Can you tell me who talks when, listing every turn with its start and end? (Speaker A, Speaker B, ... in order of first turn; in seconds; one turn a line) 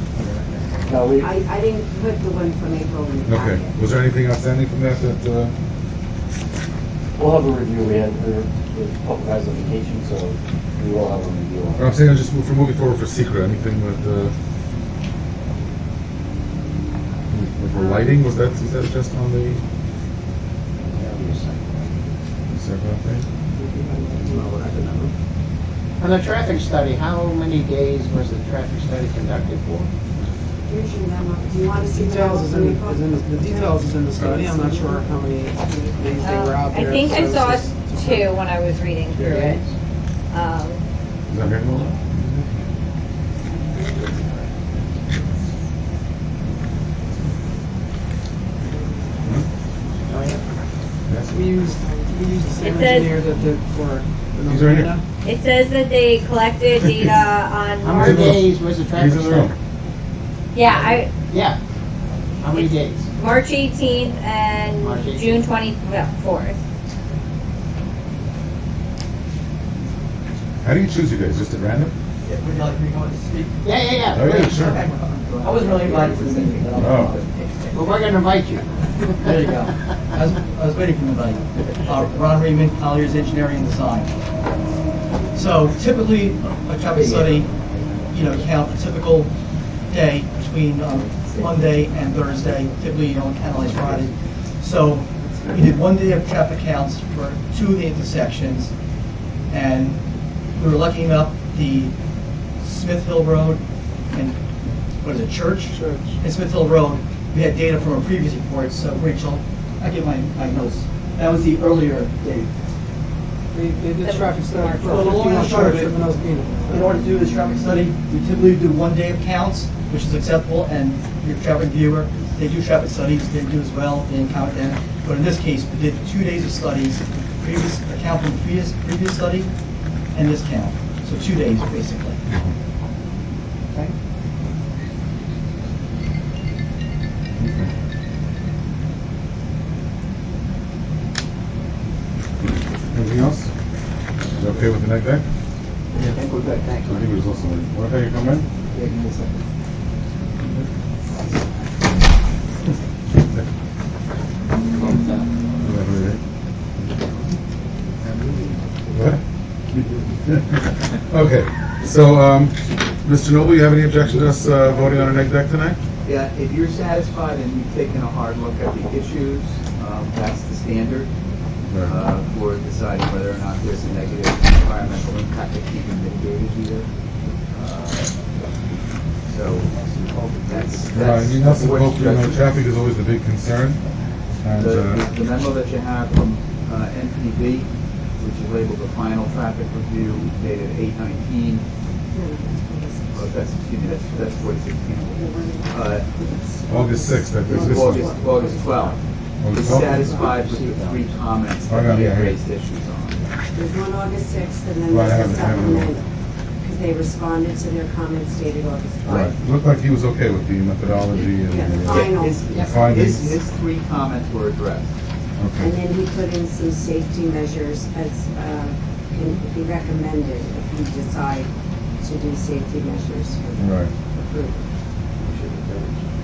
Speaker A: 0.2-0.9
Speaker B: 0.9-1.3
Speaker C: 1.2-3.8
Speaker D: 3.3-5.5
Speaker B: 7.2-11.9
Speaker D: 11.8-14.3
Speaker D: 17.3-19.6
Speaker C: 17.8-18.1
Speaker A: 20.9-22.0
Speaker D: 22.5-23.3
Speaker E: 23.6-25.1
Speaker A: 26.0-29.9
Speaker C: 30.6-35.9
Speaker E: 31.9-38.4
Speaker D: 34.2-34.4
Speaker F: 36.2-39.6
Speaker B: 39.1-39.6
Speaker F: 40.3-40.8
Speaker D: 41.3-42.0
Speaker E: 50.1-50.4
Speaker D: 51.1-51.5
Speaker E: 51.3-55.0
Speaker F: 52.6-53.2
Speaker D: 54.4-54.9
Speaker F: 55.2-58.4
Speaker A: 57.8-59.5
Speaker D: 58.0-58.4
Speaker D: 58.9-59.5
Speaker F: 60.5-61.1
Speaker A: 61.3-61.6
Speaker A: 62.4-63.1
Speaker F: 62.5-66.6
Speaker A: 64.8-65.5
Speaker D: 70.6-71.9
Speaker G: 72.2-78.1
Speaker A: 73.6-74.6
Speaker D: 74.2-74.8
Speaker H: 74.4-77.3
Speaker D: 76.8-77.2
Speaker A: 77.7-79.3
Speaker G: 79.2-84.1
Speaker G: 85.3-87.5
Speaker H: 86.8-88.7
Speaker G: 88.1-89.3
Speaker G: 89.9-98.7
Speaker H: 90.9-92.8
Speaker H: 93.4-94.1
Speaker G: 99.5-100.0
Speaker G: 100.6-102.0
Speaker G: 102.6-104.4
Speaker G: 105.0-112.5
Speaker E: 105.7-106.2
Speaker E: 113.5-116.9
Speaker F: 114.0-115.4
Speaker G: 114.9-116.0
Speaker G: 116.7-129.5
Speaker G: 130.1-132.2
Speaker D: 132.3-132.5
Speaker D: 137.4-137.7
Speaker D: 142.9-143.5
Speaker D: 144.3-145.2
Speaker H: 146.0-146.8
Speaker A: 146.0-147.0
Speaker D: 146.8-148.5
Speaker H: 148.7-149.4
Speaker H: 154.8-155.2
Speaker D: 155.6-156.2
Speaker D: 158.9-159.2
Speaker D: 160.2-165.8
Speaker H: 166.1-171.1
Speaker D: 171.7-172.0
Speaker H: 171.8-176.9
Speaker H: 177.5-178.2
Speaker H: 179.2-179.8
Speaker B: 179.7-181.5
Speaker H: 180.4-182.4
Speaker D: 180.9-183.8
Speaker D: 184.4-185.1
Speaker H: 184.5-191.7
Speaker C: 192.1-194.6
Speaker H: 193.1-196.1
Speaker C: 195.1-199.0
Speaker D: 196.7-198.2
Speaker H: 197.5-199.0
Speaker D: 199.4-200.2
Speaker H: 199.6-203.2
Speaker C: 199.6-200.3
Speaker A: 199.7-201.1
Speaker D: 201.7-202.4
Speaker C: 203.5-206.1
Speaker D: 204.9-205.9
Speaker C: 206.6-209.3
Speaker D: 209.1-213.4
Speaker C: 211.2-212.7
Speaker H: 211.8-214.9
Speaker D: 215.4-215.8
Speaker C: 215.6-224.6
Speaker D: 223.6-223.9
Speaker B: 225.2-226.1